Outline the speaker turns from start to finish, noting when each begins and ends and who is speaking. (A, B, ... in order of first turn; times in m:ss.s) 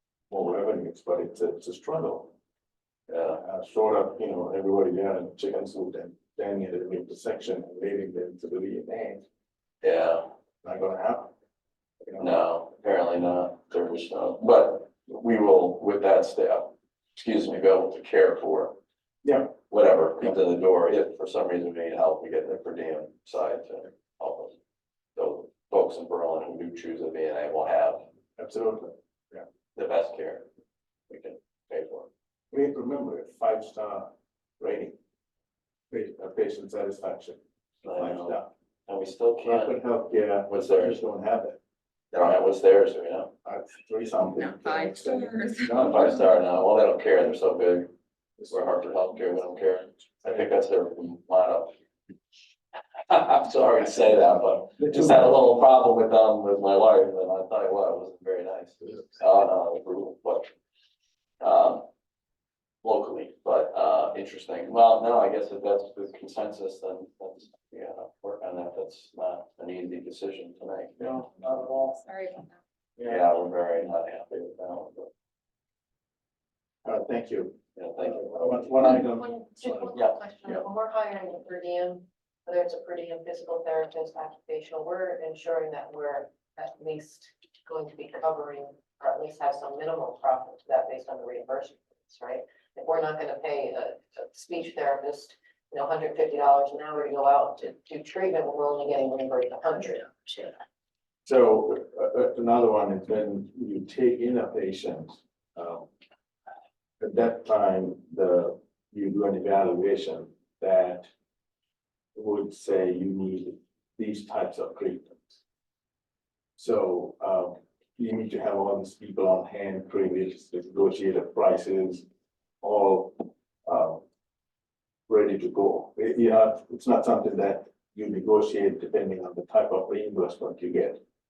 0:00.3-0:02.3 A
0:03.1-0:03.4 B
0:03.4-0:09.2 A
0:09.8-0:10.3 B
0:10.6-0:11.3 A
0:12.0-0:12.3 A
0:12.2-0:18.8 B
0:19.2-0:19.6 A
0:19.6-0:24.6 B
0:25.2-0:28.0 B
0:28.4-0:29.5 A
0:29.8-0:30.5 B
0:31.1-0:32.1 B
0:32.5-0:35.0 A
0:35.9-0:37.4 A
0:37.8-0:39.8 B
0:37.9-0:38.5 A
0:39.4-0:41.6 A
0:40.5-0:41.0 B
0:42.1-0:43.3 B
0:43.4-0:46.1 A
0:44.3-0:46.1 C
0:45.7-0:47.9 B
0:48.4-0:48.8 A
0:48.5-0:51.7 B
0:53.1-1:00.5 B
0:54.9-0:55.2 A
1:01.4-1:01.9 B
1:02.8-1:11.1 B
1:11.0-1:12.0 A
1:11.8-1:12.6 C
1:13.0-1:13.2 A
1:13.0-1:15.1 B
1:16.8-1:19.9 A
1:17.8-1:19.0 B
1:19.0-1:40.5 D
1:20.0-1:20.6 B
1:41.2-1:45.9 A
1:47.0-1:51.1 A
1:52.2-1:55.2 A
1:56.6-2:02.1 A
2:02.6-2:04.0 A
2:05.1-2:11.0 A